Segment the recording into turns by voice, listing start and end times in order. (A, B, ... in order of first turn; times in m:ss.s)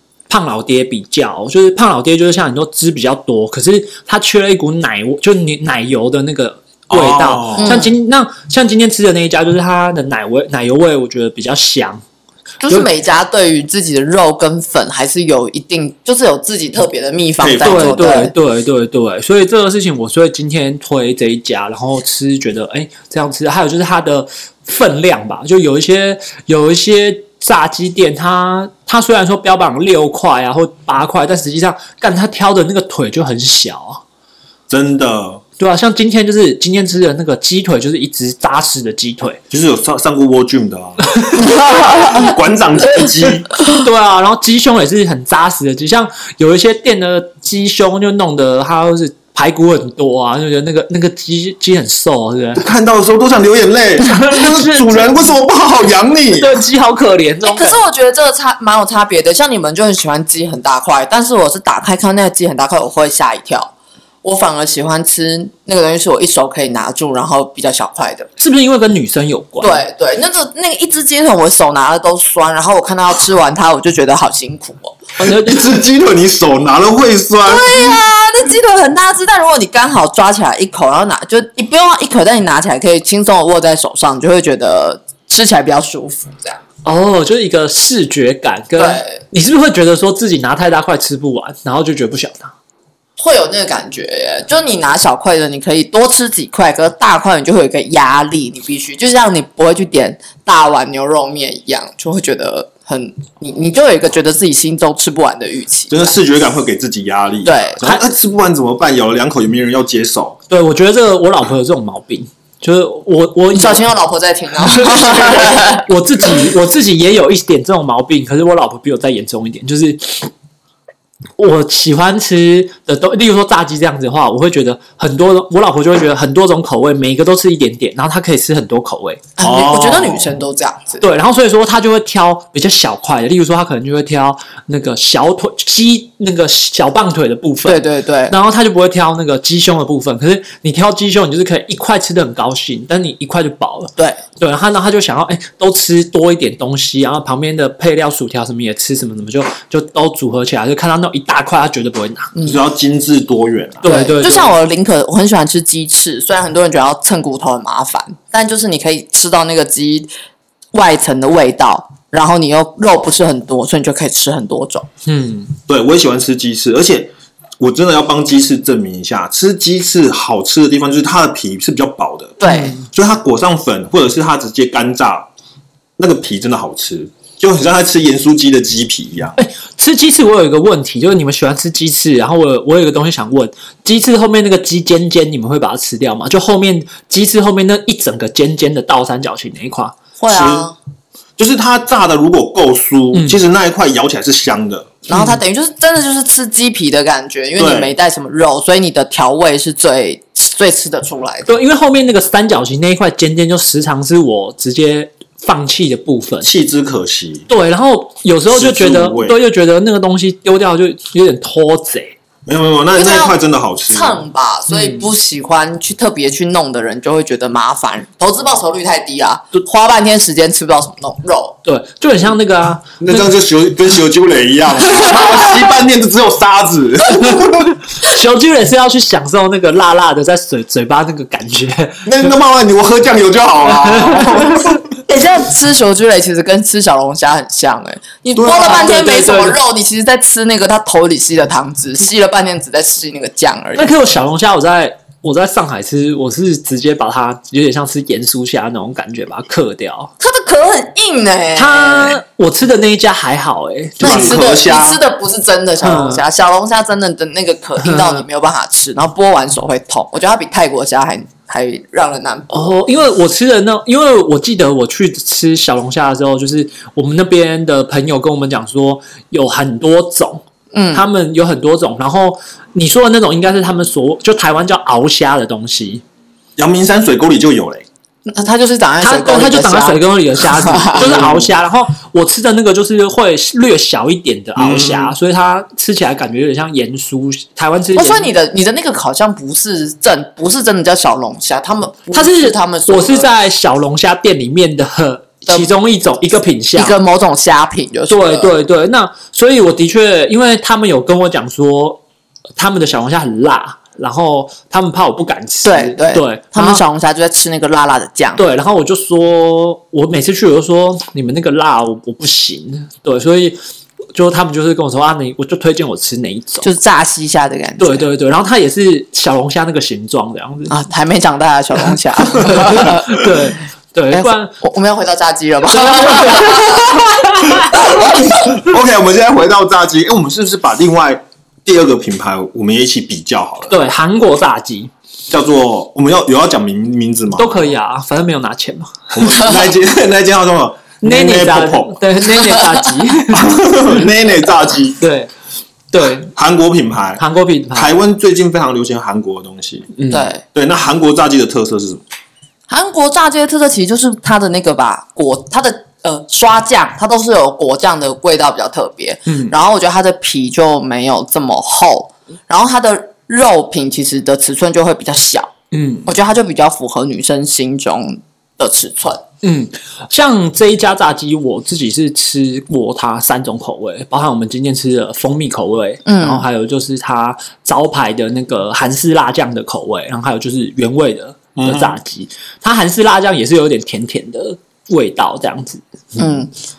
0:00.3-0:12.0 A
0:06.9-0:07.8 B
0:07.6-0:07.9 C
0:12.6-0:18.3 C
0:17.4-0:18.2 B
0:17.6-0:34.0 A
0:34.7-0:35.4 B
0:35.6-0:39.4 A
0:39.5-0:43.5 B
0:43.6-0:52.6 A
0:52.6-0:56.5 B
0:54.0-0:55.3 A
0:56.3-0:57.8 A
0:57.4-1:03.7 C
1:04.2-1:08.3 C
1:08.4-1:09.8 A
1:09.6-1:15.0 C
1:15.2-1:15.7 A
1:15.2-1:17.7 B
1:17.4-1:26.6 C
1:26.8-1:32.5 A
1:28.8-1:29.2 C
1:33.2-1:46.1 C
1:45.9-1:50.4 B
1:47.4-1:47.8 C
1:50.5-1:53.8 A
1:53.5-1:55.9 C
1:54.6-2:00.3 A
2:01.4-2:09.2 A
2:09.4-2:11.0 C
2:09.4-2:10.3 B
2:11.0-2:32.3 A
2:17.6-2:18.4 C
2:24.0-2:24.2 C
2:32.4-2:33.9 B
2:33.8-2:34.6 A
2:33.8-2:40.1 C
2:40.7-2:44.9 C
2:45.0-2:45.5 A
2:45.7-2:55.3 B
2:52.4-2:52.8 C
2:52.4-2:52.8 A
2:56.0-2:59.4 B
2:59.4-3:10.0 A
3:10.2-3:10.7 C
3:10.3-3:10.6 B
3:11.4-3:14.9 B
3:13.1-3:13.4 A
3:15.1-3:21.6 C
3:15.1-3:15.4 A
3:17.6-3:17.9 B
3:21.5-3:26.5 A
3:26.4-3:27.5 B
3:27.5-3:32.1 A
3:28.5-3:29.4 B
3:32.5-3:34.2 B
3:32.9-3:33.4 C
3:33.9-3:41.6 C
3:34.7-3:35.1 A
3:41.6-3:43.3 A
3:43.0-3:47.7 B
3:45.0-3:45.3 A
3:47.3-3:52.3 A
3:52.0-3:54.8 B
3:53.7-3:54.6 A
3:55.0-4:03.9 C
3:58.4-3:58.9 B
3:58.6-3:59.6 A
4:03.8-4:10.1 A
4:10.2-4:12.2 C
4:11.5-4:14.3 A
4:14.0-4:22.7 C
4:14.0-4:15.0 B
4:15.8-4:16.2 A
4:17.8-4:18.2 A
4:22.5-4:36.0 A
4:30.7-4:31.0 C
4:36.6-4:37.8 B
4:38.2-4:41.4 C
4:39.0-4:48.3 A
4:41.0-4:41.5 B
4:44.6-4:45.1 B
4:47.9-4:53.3 C
4:52.1-4:57.0 A
4:56.8-4:58.5 C
4:58.1-5:02.0 A
5:02.6-5:06.8 A
5:05.6-5:08.4 C
5:08.4-5:13.6 A
5:14.1-5:16.7 A
5:16.6-5:18.1 C
5:17.8-5:20.8 A
5:20.7-5:23.2 C
5:22.4-5:24.5 A
5:24.1-5:27.2 C
5:25.7-5:27.8 A
5:27.7-5:28.3 C
5:27.9-5:33.7 B
5:33.7-5:34.9 A
5:35.3-5:37.6 B
5:37.4-5:39.5 A
5:39.1-5:42.0 B
5:41.0-5:44.0 A
5:42.4-5:42.8 C
5:43.3-5:45.0 B
5:45.0-5:45.3 A
5:45.9-5:46.3 A
5:46.3-5:49.9 B
5:47.2-5:47.9 A
5:49.9-5:50.3 A
5:50.1-5:50.4 C
5:50.5-5:52.0 B
5:52.7-6:05.5 C
5:59.3-5:59.5 A
6:05.7-6:06.1 A
6:06.0-6:09.2 C
6:09.4-6:25.8 A
6:16.0-6:16.4 C
6:21.6-6:22.0 B
6:26.2-6:26.5 C